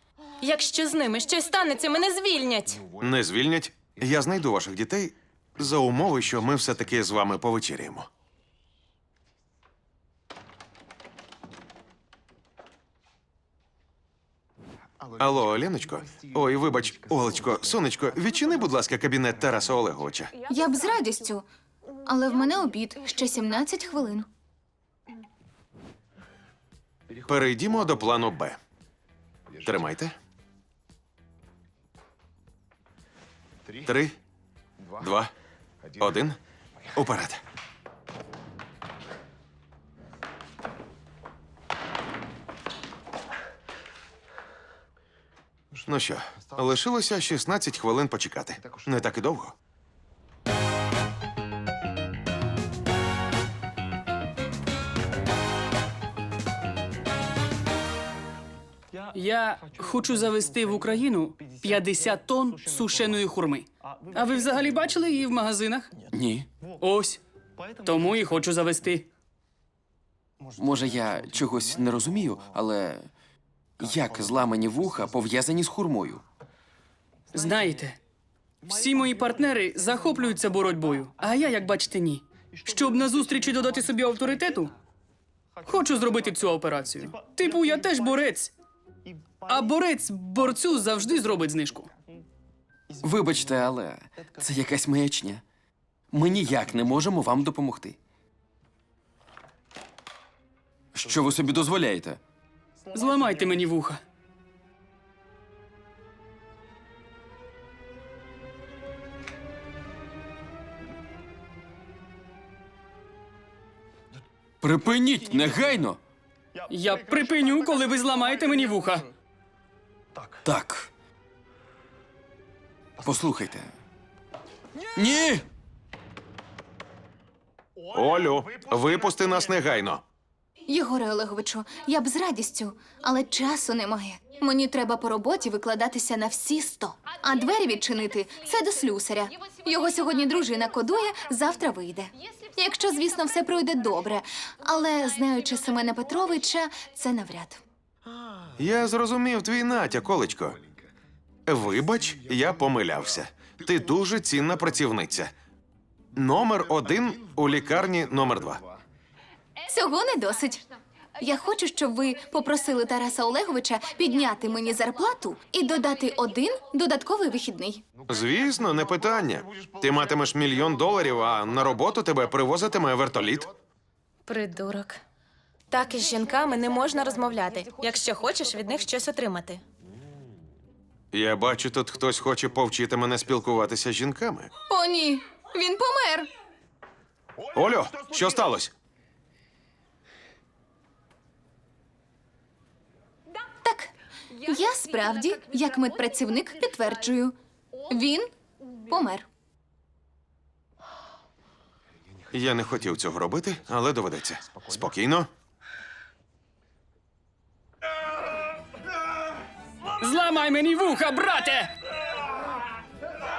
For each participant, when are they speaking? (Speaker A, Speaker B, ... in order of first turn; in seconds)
Speaker A: 0.4-2.9, 174.2-175.0, 175.7-179.6
Speaker B: 2.9-8.1, 15.2-20.3, 27.2-28.6, 29.6-30.1, 33.8-34.1, 35.0-35.3, 36.0-36.4, 36.9-37.4, 45.7-49.5, 127.9-130.0, 148.6-150.6, 151.4-155.3, 156.1-158.6, 168.1-173.5, 181.1-184.5, 187.5-188.7, 202.3-205.3
Speaker C: 20.4-21.5, 22.0-24.3, 130.7-147.6, 159.7-160.6, 161.2-167.8, 184.7-186.3, 193.6-193.9, 194.4-197.3, 197.9-198.3, 198.8-199.2
Speaker D: 59.1-65.9, 66.8-67.2, 67.8-69.1, 77.3-78.0, 78.7-84.7, 85.7-88.5, 89.5-91.9, 102.9-104.0, 116.7-119.1, 210.0-211.7
Speaker E: 66.1-66.5, 70.6-73.1, 73.8-76.2, 93.0-95.4, 96.1-98.0, 100.9-102.2, 114.6-116.0, 120.4-120.9, 123.0-123.7, 125.0-125.4